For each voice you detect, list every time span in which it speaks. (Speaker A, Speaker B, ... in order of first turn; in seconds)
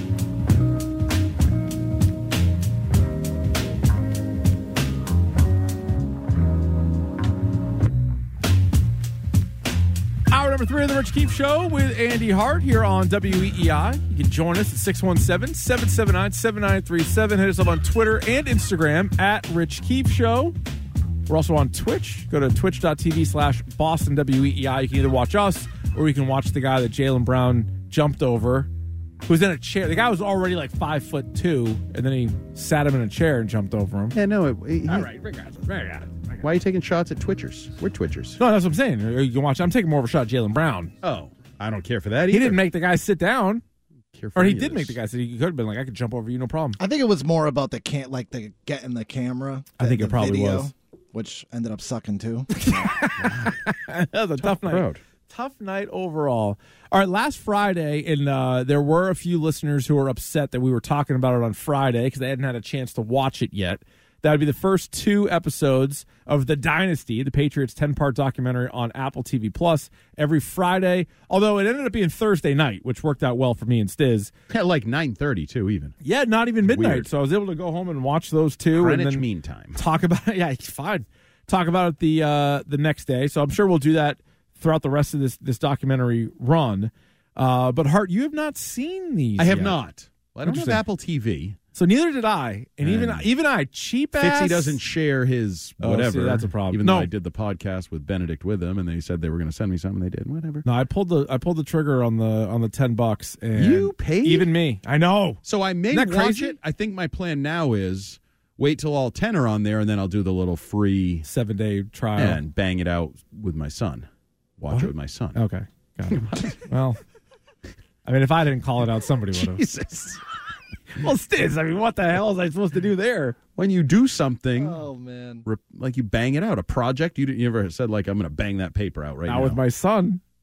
Speaker A: 10.3-20.6, 21.3-28.7, 29.3-34.2, 34.9-36.4, 38.4-40.9, 42.3-43.6, 44.4-46.8, 49.8-50.7, 52.5-74.3, 76.0-79.2, 79.8-89.8, 90.5-90.8, 91.7-94.8, 95.8-97.1, 100.7-106.6, 111.2-112.4, 114.7-117.0, 118.0-119.6, 121.0-123.4, 129.3-130.2
Speaker B: 34.1-35.1, 36.4-38.4, 41.0-42.6, 44.1-45.0, 53.2-53.6, 54.4-55.0, 74.5-76.0, 76.6-77.1, 78.7-79.8, 89.4-91.6, 92.8-93.3, 94.2-100.7, 103.5-104.5, 105.4-111.3, 112.2-114.1, 114.6-115.4, 116.1-116.6, 119.3-120.2, 123.6-124.8, 125.5-129.6
Speaker C: 46.8-52.9, 124.6-125.5